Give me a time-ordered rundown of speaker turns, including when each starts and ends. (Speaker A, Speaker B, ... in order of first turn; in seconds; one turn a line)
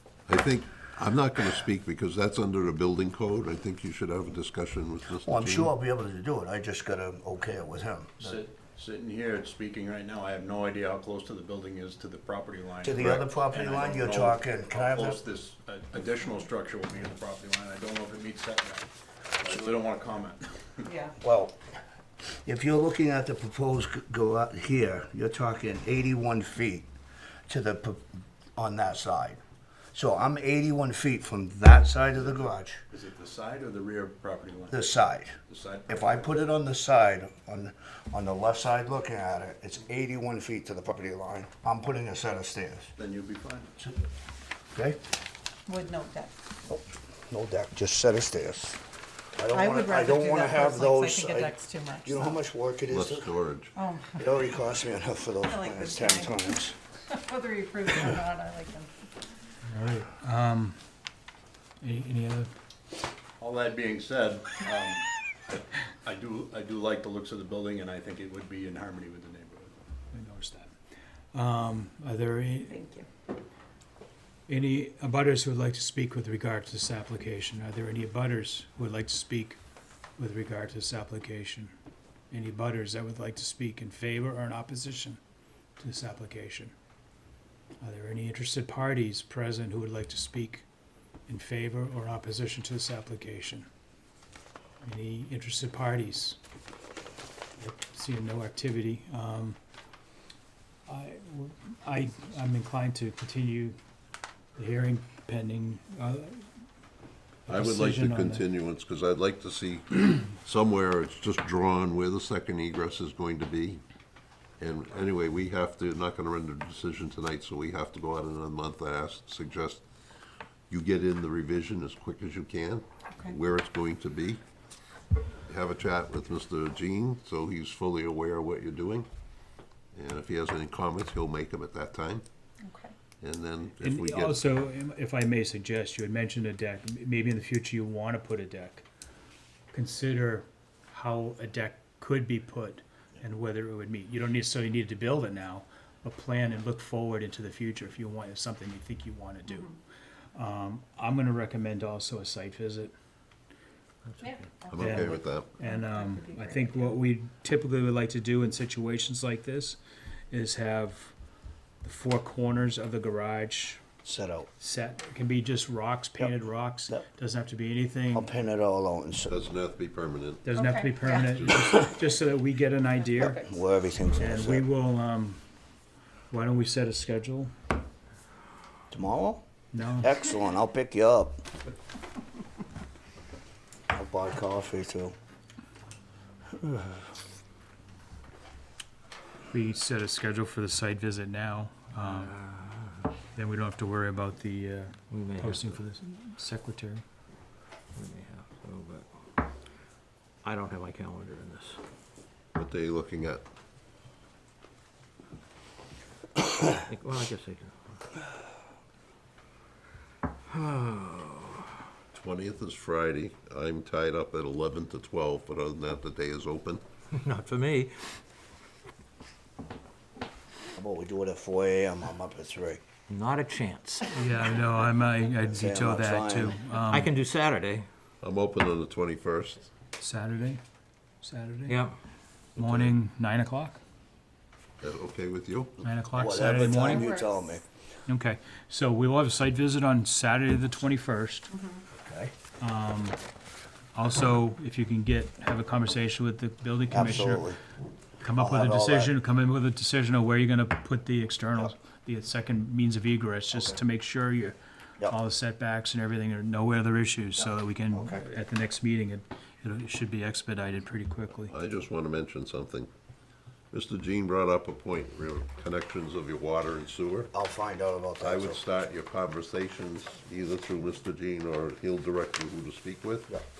Speaker A: 0.3-5.7
Speaker B: 5.2-8.4
Speaker C: 8.2-20.9
Speaker B: 12.8-15.2
Speaker A: 13.0-13.2
Speaker D: 20.8-21.2
Speaker B: 21.2-21.6
Speaker B: 22.4-26.9
Speaker B: 27.5-29.4
Speaker B: 29.9-32.8
Speaker C: 32.2-34.8
Speaker B: 34.7-42.9
Speaker C: 35.5-36.5
Speaker C: 43.0-43.7
Speaker B: 44.7-45.0
Speaker D: 45.7-46.3
Speaker B: 46.7-48.8
Speaker B: 49.4-53.3
Speaker D: 49.5-52.4
Speaker A: 52.9-53.7
Speaker D: 53.8-54.3
Speaker B: 54.2-56.8
Speaker D: 55.4-58.9
Speaker E: 59.7-60.8
Speaker E: 61.8-62.5
Speaker C: 63.4-69.7
Speaker E: 70.1-70.7
Speaker E: 71.3-72.8
Speaker D: 72.7-73.1
Speaker E: 74.5-79.6
Speaker E: 80.2-81.7
Speaker E: 82.3-85.2
Speaker E: 85.8-86.7
Speaker E: 87.8-90.7
Speaker E: 91.3-93.7
Speaker E: 94.8-96.4
Speaker E: 97.6-99.6
Speaker E: 100.9-103.8
Speaker E: 104.6-106.5
Speaker E: 107.5-108.4
Speaker A: 107.5-113.8
Speaker A: 114.6-119.8
Speaker A: 120.7-124.4
Speaker A: 125.5-129.1
Speaker A: 129.9-132.2
Speaker D: 132.6-132.9
Speaker A: 133.2-134.4
Speaker E: 133.8-138.8
Speaker E: 139.7-149.8
Speaker E: 150.3-152.9
Speaker D: 154.2-154.7
Speaker A: 154.7-155.5
Speaker E: 154.7-159.8
Speaker D: 155.7-156.9
Speaker E: 160.3-161.1
Speaker E: 161.8-163.8
Speaker B: 164.0-164.5
Speaker E: 164.6-168.3
Speaker B: 168.1-169.4
Speaker A: 169.3-170.4
Speaker E: 170.4-173.4
Speaker D: 170.5-171.6
Speaker B: 173.2-174.7
Speaker E: 174.2-175.4
Speaker E: 176.3-177.5
Speaker B: 178.9-179.5
Speaker E: 179.7-180.2
Speaker B: 180.0-181.5
Speaker B: 183.9-185.2
Speaker B: 186.6-187.0
Speaker E: 189.5-192.3
Speaker F: 192.0-193.1
Speaker E: 193.3-197.0
Speaker F: 195.1-195.8
Speaker F: 197.9-199.1
Speaker F: 200.4-201.8
Speaker A: 202.5-203.4
Speaker F: 206.7-208.0
Speaker F: 210.5-211.7
Speaker A: 212.1-216.8
Speaker F: 217.1-217.9
Speaker B: 220.8-222.8
Speaker F: 223.1-224.1
Speaker E: 224.1-227.1
Speaker B: 225.5-226.6
Speaker F: 226.9-227.9
Speaker A: 228.2-229.6
Speaker E: 230.0-230.6
Speaker E: 231.2-231.8
Speaker F: 231.7-231.9
Speaker E: 232.6-233.8
Speaker A: 234.8-235.8
Speaker E: 235.8-237.1
Speaker B: 236.1-237.6
Speaker D: 236.8-237.3
Speaker E: 238.1-241.5
Speaker D: 241.5-241.8
Speaker B: 241.9-242.3
Speaker E: 242.6-243.2
Speaker E: 243.9-247.5
Speaker B: 246.9-247.6
Speaker E: 248.2-261.5
Speaker B: 248.4-249.1
Speaker B: 257.4-258.3
Speaker A: 261.5-262.9
Speaker A: 263.7-267.3
Speaker B: 267.3-268.6
Speaker A: 268.2-273.3